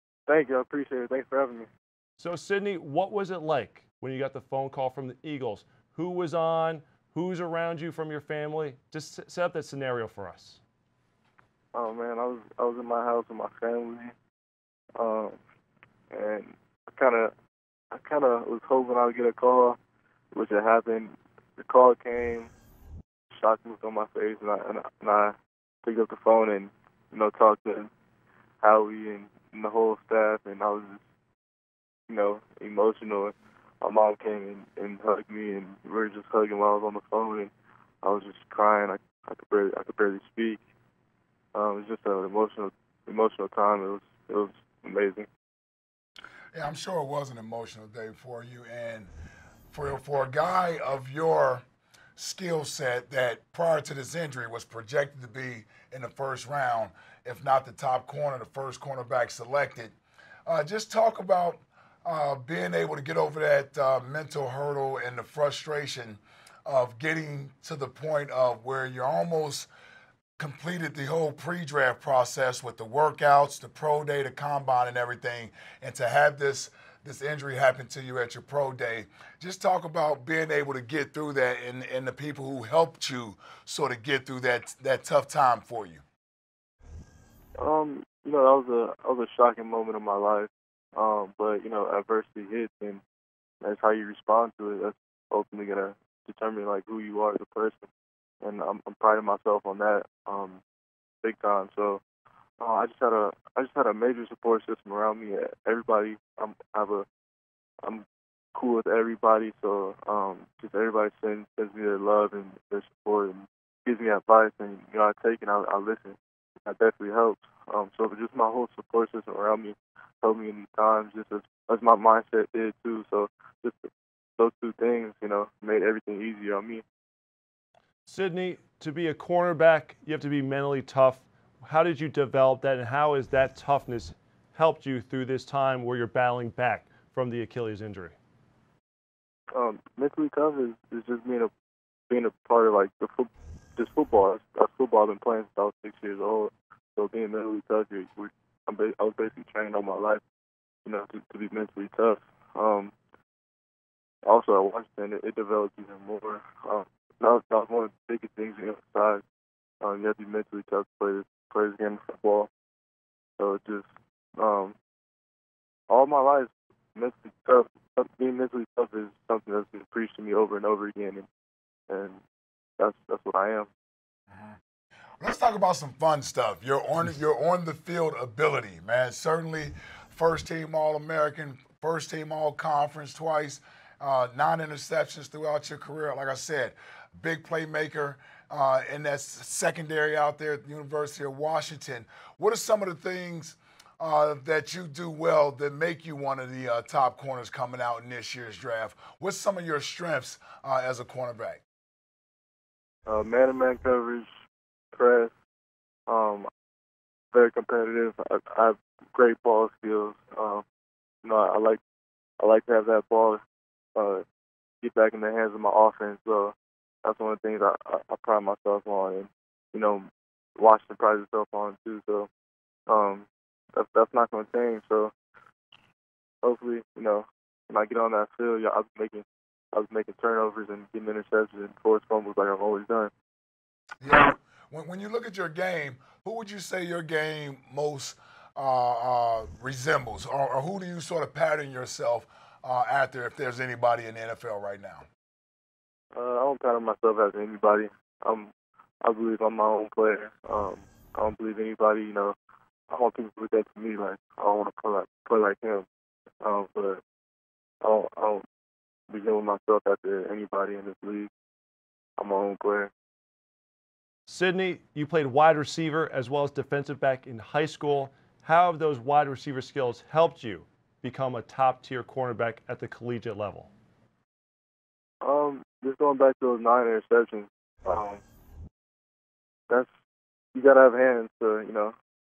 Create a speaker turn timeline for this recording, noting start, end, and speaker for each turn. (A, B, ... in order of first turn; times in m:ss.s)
0:00.3-0:01.7 A
0:02.2-0:10.6 B
0:11.7-0:14.1 A
0:15.0-0:15.4 A
0:16.1-0:17.3 A
0:17.9-0:19.8 A
0:20.3-0:22.5 A
0:23.3-0:27.9 A
0:28.6-0:31.0 A
0:32.1-0:37.5 A
0:38.0-0:40.6 A
0:41.6-0:45.3 A
0:46.5-0:49.1 C
0:49.7-0:51.6 C
0:52.2-1:00.0 C
1:00.5-1:09.7 C
1:10.4-1:26.0 C
1:27.6-1:33.0 A
1:33.6-1:37.9 A
1:38.4-1:40.6 A
1:41.2-1:42.0 A
1:42.6-1:47.1 A
1:47.8-2:06.8 A
2:08.1-2:18.2 B
2:19.5-2:21.5 A
2:22.1-2:30.2 A
2:30.8-2:32.9 A
2:34.2-2:39.2 A
2:39.8-2:42.5 A
2:43.4-2:44.8 A
2:45.9-2:51.3 A
2:51.9-2:52.2 A
2:52.8-2:53.7 A
2:55.2-3:21.6 C
3:23.1-3:24.3 A
3:24.9-3:25.3 A
3:26.1-3:26.5 A
3:27.3-3:30.6 A
3:31.2-3:31.8 A
3:32.4-3:33.4 A
3:34.0-3:34.2 A
3:34.8-3:42.3 A
3:42.9-3:45.1 A
3:46.4-3:53.1 A
3:54.0-4:05.0 C
4:06.1-4:12.4 A
4:12.9-4:15.9 A
4:16.4-4:17.0 A
4:17.8-4:18.4 A
4:19.1-4:21.3 A
4:22.2-4:22.9 A
4:24.3-4:33.7 B
4:35.2-4:38.2 A
4:40.6-4:42.0 A